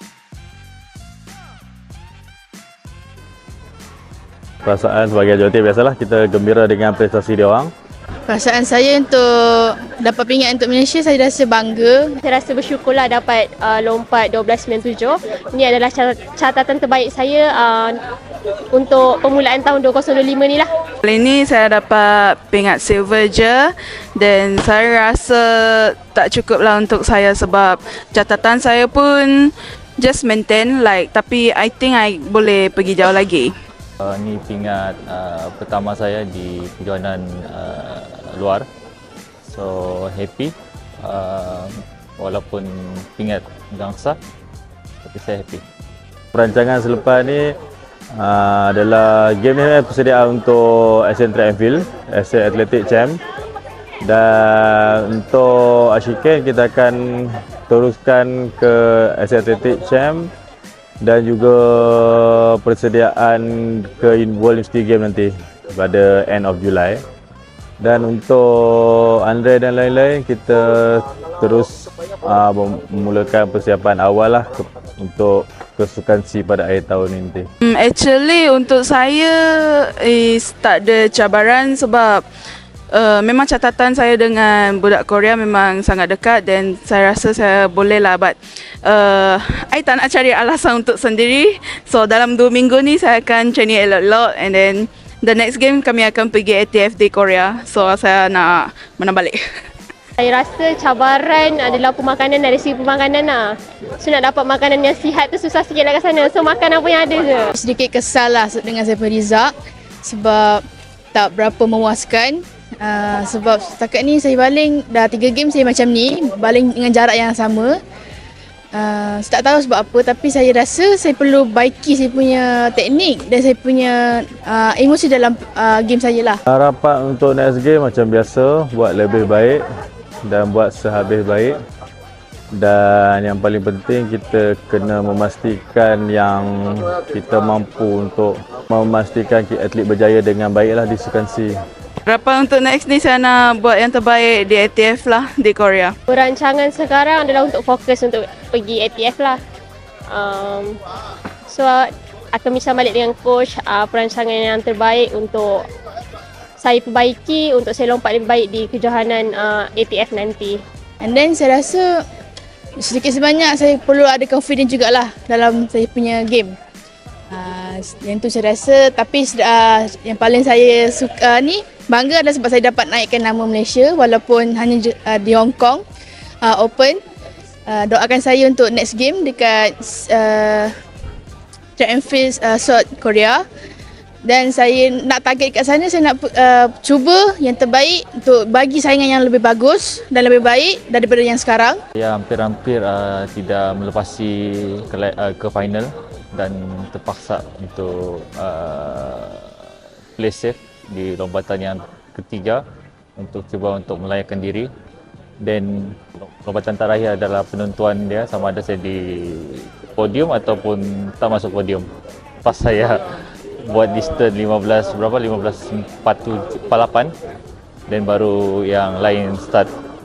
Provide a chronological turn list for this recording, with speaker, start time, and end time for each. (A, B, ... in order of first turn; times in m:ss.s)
0:04.6-0:07.7 A
0:08.3-0:12.1 B
0:12.2-0:18.0 C
0:18.7-0:20.7 C
0:21.0-0:33.5 D
0:34.0-0:38.7 E
0:39.4-0:44.2 E
0:45.0-0:45.6 E
0:46.3-0:47.5 A
0:48.2-0:53.2 A
0:54.0-1:00.3 A
1:01.0-1:07.0 A
1:07.8-1:17.5 A
1:17.7-1:22.2 D
1:22.9-1:39.4 D
1:40.2-1:47.5 C
1:47.5-1:50.6 B
1:51.1-1:57.8 B
1:58.7-2:06.4 B
2:06.5-2:09.6 A
2:10.2-2:11.6 A
2:12.5-2:21.6 A
2:22.0-2:25.9 D
2:26.1-2:29.4 C
2:30.1-2:30.8 C
2:31.5-2:35.6 C
2:36.6-2:40.6 C
2:41.0-2:42.0 B
2:42.8-2:46.6 B
2:47.3-2:55.8 B
2:56.4-2:57.0 B
2:57.7-3:00.7 B
3:01.8-3:03.4 B
3:04.2-3:11.8 B
3:12.0-3:19.6 E
3:20.2-3:22.6 E
3:23.2-3:24.7 E
3:25.4-3:31.9 E
3:32.4-3:33.0 E
3:33.6-3:37.1 E
3:37.9-3:39.7 E